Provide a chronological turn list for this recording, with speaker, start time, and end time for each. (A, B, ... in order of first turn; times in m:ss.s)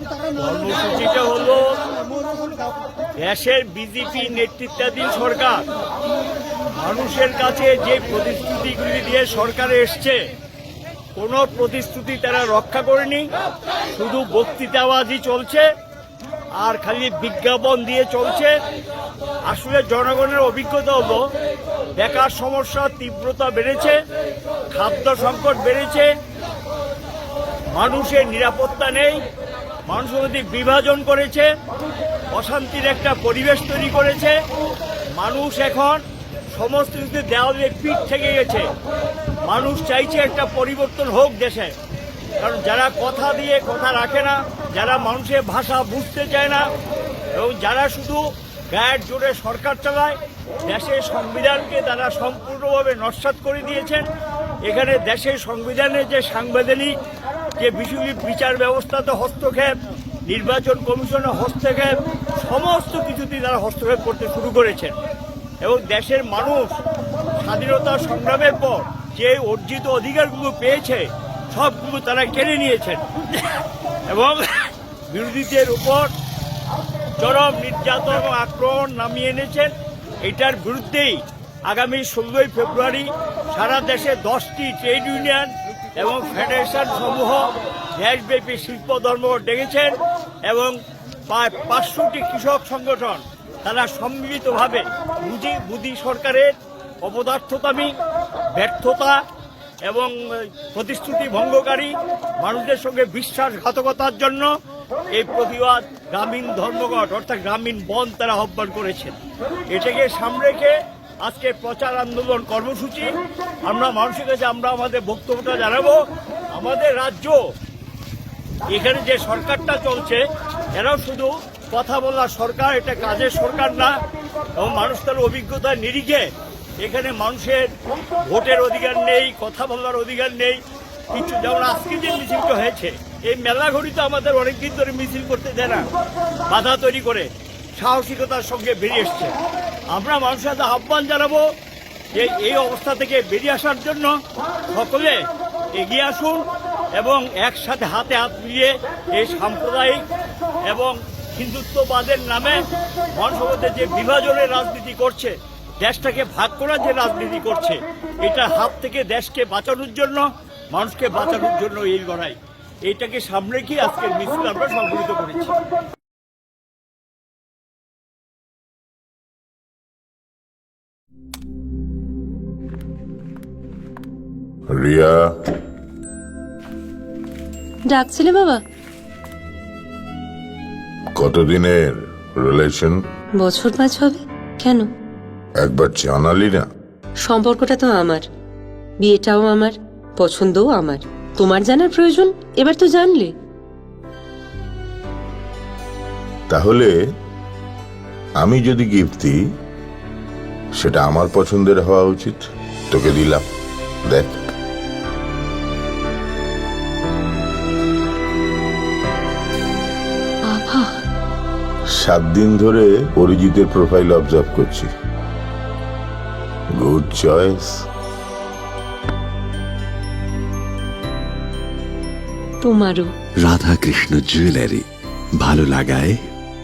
0:00.4-0:01.6 A
0:03.2-0:05.6 A
0:06.8-0:10.2 A
0:11.2-0:13.2 A
0:13.9-0:15.6 A
0:16.6-0:18.5 A
0:19.5-0:21.2 A
0:22.0-0:24.0 A
0:24.7-0:26.1 A
0:27.7-0:29.2 A
0:29.9-0:31.5 A
0:32.3-0:34.4 A
0:35.1-0:36.0 A
0:36.5-0:38.7 A
0:39.4-0:41.7 A
0:42.4-0:46.6 A
0:47.3-0:54.0 A
0:54.6-0:56.9 A
0:57.6-0:59.7 A
1:00.3-1:05.0 A
1:05.6-1:06.8 A
1:07.4-1:16.1 A
1:17.2-1:30.8 A
1:31.3-1:37.9 A
1:38.5-1:39.2 A
1:39.8-1:44.5 A
1:45.1-1:49.2 A
1:49.7-1:53.1 A
1:53.6-1:56.0 A
1:56.5-1:57.4 A
1:58.7-2:00.2 A
2:00.7-2:03.9 A
2:04.6-2:06.3 A
2:06.8-2:10.6 A
2:11.1-2:15.9 A
2:16.5-2:19.3 A
2:19.9-2:21.4 A
2:22.1-2:24.1 A
2:24.7-2:25.2 A
2:25.7-2:30.1 A
2:30.7-2:45.5 A
2:54.7-2:55.3 B
2:57.9-2:58.6 C
3:01.2-3:03.0 B
3:03.4-3:04.8 C
3:05.6-3:06.6 B
3:07.3-3:08.2 C
3:09.0-3:13.3 C
3:16.5-3:16.9 B
3:18.4-3:19.4 B
3:20.8-3:23.5 B
3:24.1-3:24.4 B
3:30.5-3:31.0 C
3:31.9-3:34.9 B
3:36.7-3:37.8 B
3:42.6-3:43.1 C
3:43.5-3:44.8 D
3:45.4-3:46.1 D